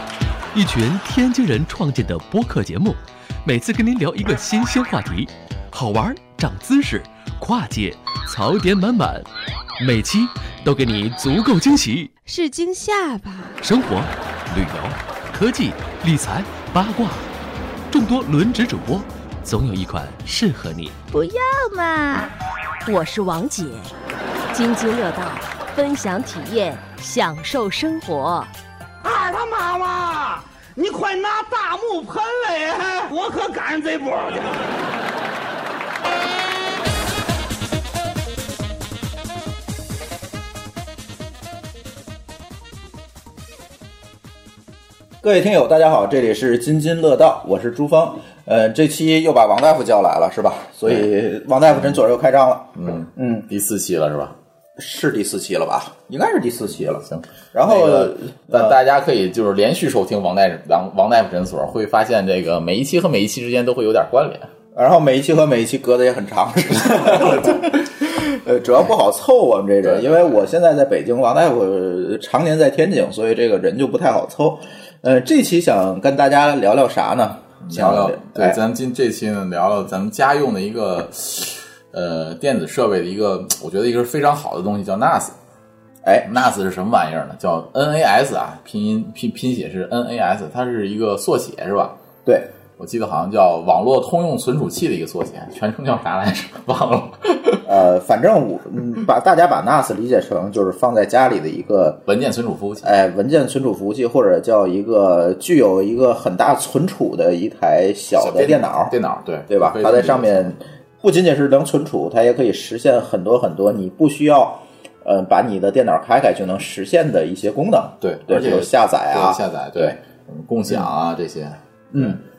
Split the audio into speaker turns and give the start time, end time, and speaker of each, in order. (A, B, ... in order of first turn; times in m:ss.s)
0:00.5-0:09.3 A
0:09.8-0:12.1 A
0:12.2-0:13.6 B
0:13.6-0:17.3 A
0:17.9-0:21.0 A
0:21.1-0:22.3 B
0:22.8-0:23.9 B
0:24.5-0:28.5 B
0:29.2-0:30.1 C
0:30.9-0:32.1 C
0:33.1-0:34.2 C
0:45.2-0:53.5 D
0:52.7-0:54.3 E
0:54.8-0:58.8 D
0:56.9-1:04.5 E
1:04.7-1:18.6 D
1:09.8-1:10.2 E
1:17.6-1:25.3 E
1:26.0-1:26.5 D
1:26.3-1:31.9 E
1:32.8-1:37.7 E
1:37.6-1:42.0 D
1:42.0-1:42.9 E
1:42.8-1:48.9 D
1:48.1-1:50.5 E
1:49.5-2:00.0 D
1:58.0-2:02.2 E
2:01.9-2:02.2 D